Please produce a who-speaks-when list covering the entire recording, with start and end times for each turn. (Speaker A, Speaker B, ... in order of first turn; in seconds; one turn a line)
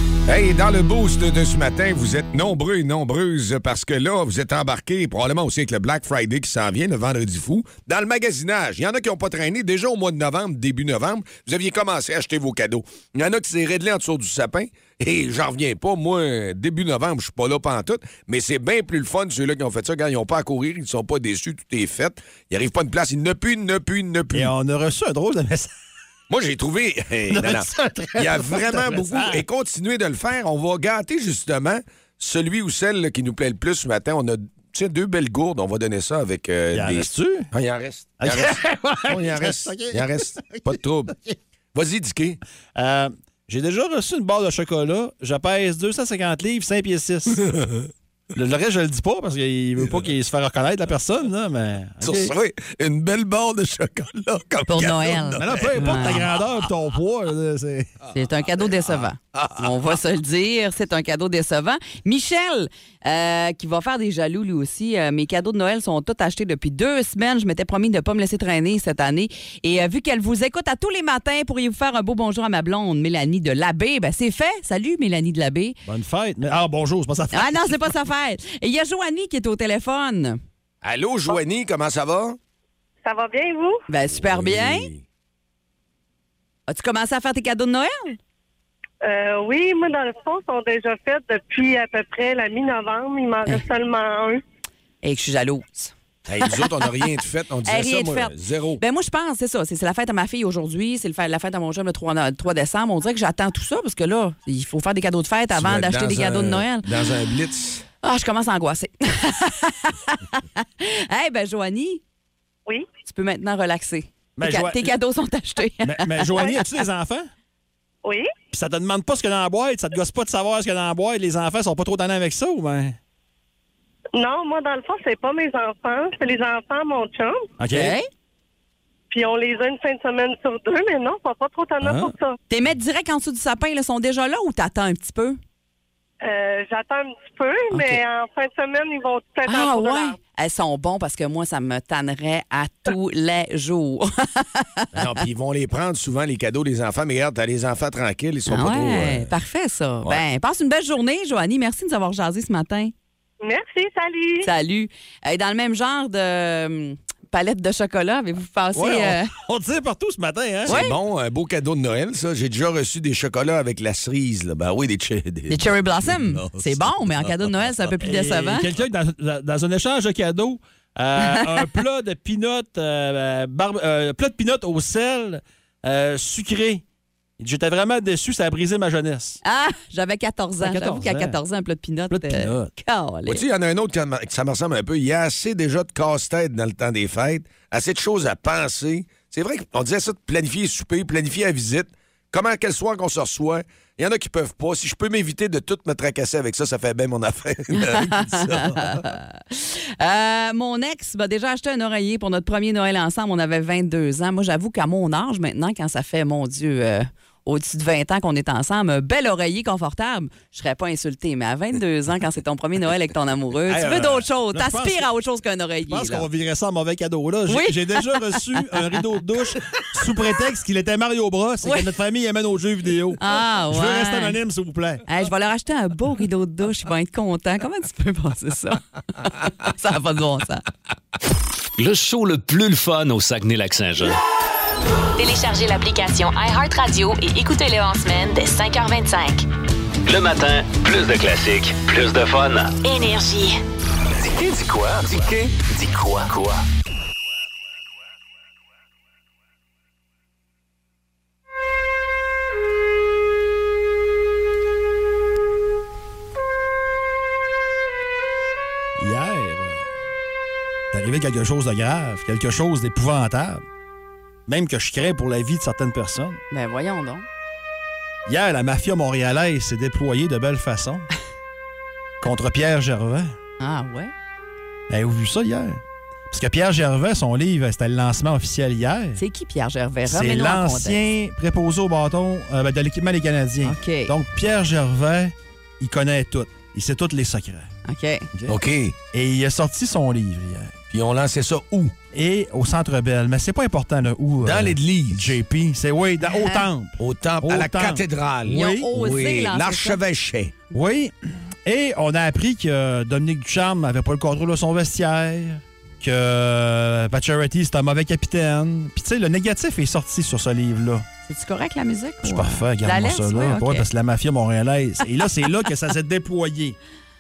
Speaker A: 0.3-24.5
Speaker B: 24.3-25.7
Speaker A: 26.3-38.6
Speaker B: 27.3-29.4
Speaker B: 36.7-37.5
Speaker B: 38.2-41.4
Speaker A: 39.1-41.2
Speaker A: 41.7-42.4
Speaker B: 42.8-47.4
Speaker A: 47.4-47.9
Speaker B: 48.3-52.3
Speaker A: 52.0-56.3
Speaker C: 54.7-56.3
Speaker B: 55.4-58.0
Speaker C: 58.1-75.8
Speaker A: 58.8-59.9
Speaker B: 75.9-77.9
Speaker C: 77.3-80.4
Speaker A: 80.8-82.4
Speaker D: 83.0-83.8
Speaker C: 83.9-84.9
Speaker A: 84.1-85.0
Speaker C: 86.7-88.2
Speaker D: 89.0-94.4
Speaker C: 95.0-95.9
Speaker A: 96.3-98.8
Speaker C: 96.5-96.9
Speaker C: 97.7-106.9
Speaker A: 105.5-107.8
Speaker C: 108.0-112.0
Speaker C: 113.1-116.8
Speaker B: 114.4-114.9
Speaker B: 115.8-117.3
Speaker B: 118.5-123.0
Speaker D: 124.2-127.4
Speaker B: 127.6-128.0
Speaker C: 127.7-128.1
Speaker D: 129.1-132.3
Speaker B: 131.8-132.1
Speaker C: 132.5-135.4
Speaker D: 136.2-140.2
Speaker C: 137.7-138.0
Speaker C: 139.5-145.0
Speaker A: 144.9-149.3
Speaker C: 148.5-152.9
Speaker D: 153.4-154.5
Speaker C: 154.4-159.3
Speaker B: 158.7-160.8
Speaker A: 160.7-167.7
Speaker C: 160.7-161.0
Speaker C: 165.5-168.7
Speaker B: 168.0-176.8
Speaker C: 171.2-171.7
Speaker B: 177.4-179.4
Speaker C: 179.4-183.4
Speaker B: 180.6-181.4
Speaker B: 182.1-182.7
Speaker A: 183.3-199.1
Speaker C: 197.8-216.3
Speaker B: 213.7-215.1
Speaker B: 215.9-225.0
Speaker C: 217.5-219.0
Speaker C: 221.6-221.9
Speaker C: 223.2-224.4
Speaker C: 225.1-230.7
Speaker E: 231.8-234.2
Speaker F: 235.2-239.5
Speaker E: 240.1-242.8
Speaker F: 242.8-243.6
Speaker E: 244.2-246.6
Speaker B: 259.0-259.9
Speaker B: 260.9-263.6
Speaker B: 264.5-266.4
Speaker C: 266.5-267.3
Speaker B: 268.3-271.1
Speaker B: 272.2-273.4
Speaker C: 273.6-274.1
Speaker B: 274.9-279.2
Speaker C: 279.2-281.0
Speaker B: 280.1-287.7
Speaker C: 283.6-284.1
Speaker C: 287.9-288.3
Speaker A: 288.5-288.9
Speaker B: 289.1-290.8
Speaker A: 290.9-291.9
Speaker B: 292.1-298.9
Speaker A: 294.4-295.4
Speaker C: 296.4-296.7
Speaker A: 297.0-300.5
Speaker C: 298.5-300.0
Speaker B: 300.7-311.1
Speaker C: 311.3-313.9
Speaker B: 312.2-316.8